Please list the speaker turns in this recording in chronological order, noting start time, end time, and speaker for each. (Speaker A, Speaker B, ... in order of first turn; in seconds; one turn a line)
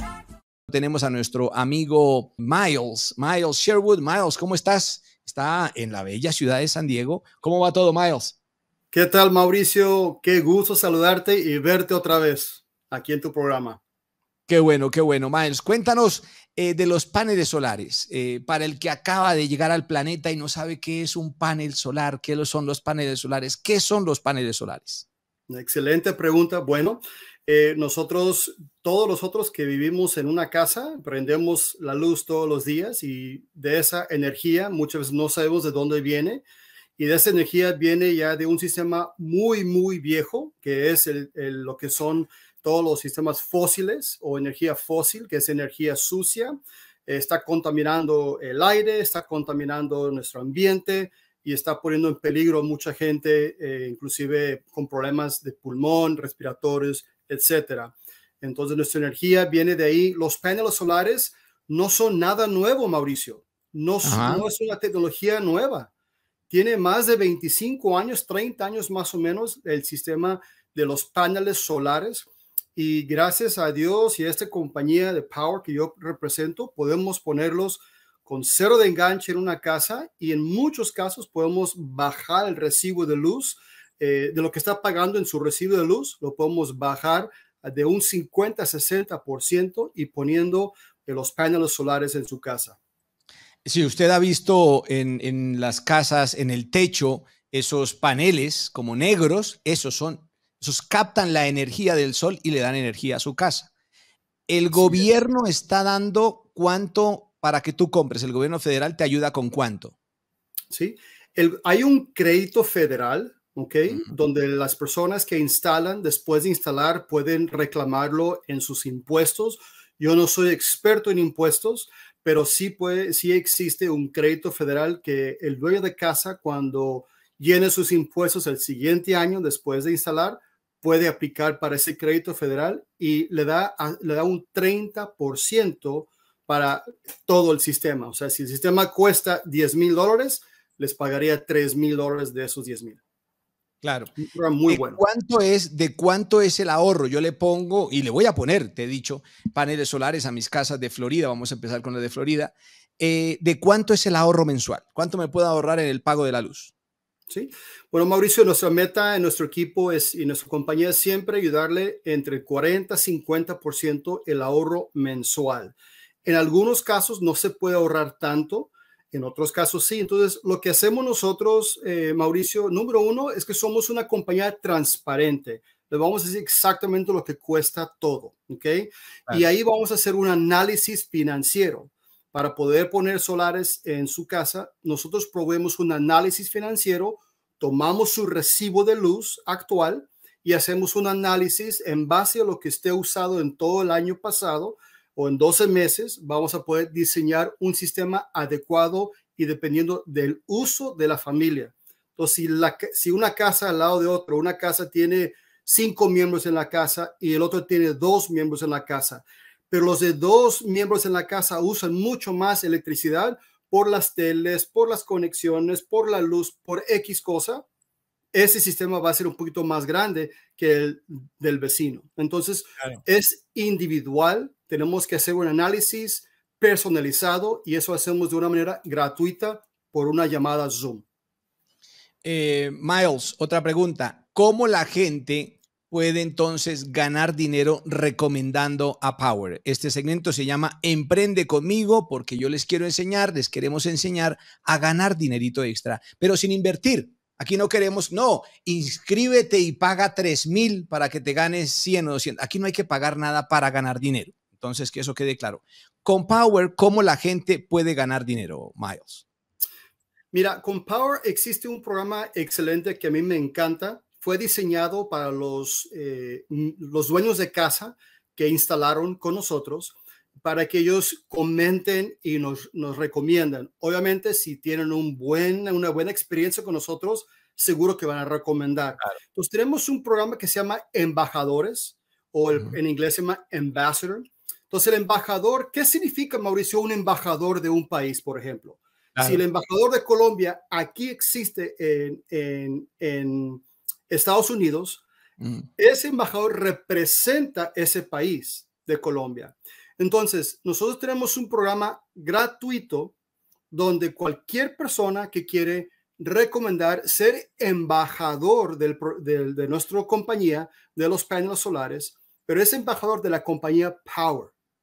Speaker A: 0.7-8.3
Speaker B: 8.9-13.8
Speaker A: 14.5-25.1
Speaker B: 25.5-36.4
Speaker B: 37.0-65.9
Speaker A: 64.0-64.4
Speaker B: 66.5-92.8
Speaker A: 93.7-103.7
Speaker A: 104.5-109.9
Speaker B: 104.7-105.0
Speaker B: 110.7-143.0
Speaker A: 143.8-144.1
Speaker B: 144.2-145.0
Speaker A: 144.7-156.7
Speaker B: 157.3-165.7
Speaker B: 166.2-217.6
Speaker B: 218.3-231.0
Speaker A: 232.2-259.2
Speaker B: 260.3-295.0
Speaker A: 295.4-295.7
Speaker B: 295.8-303.1
Speaker B: 303.7-314.5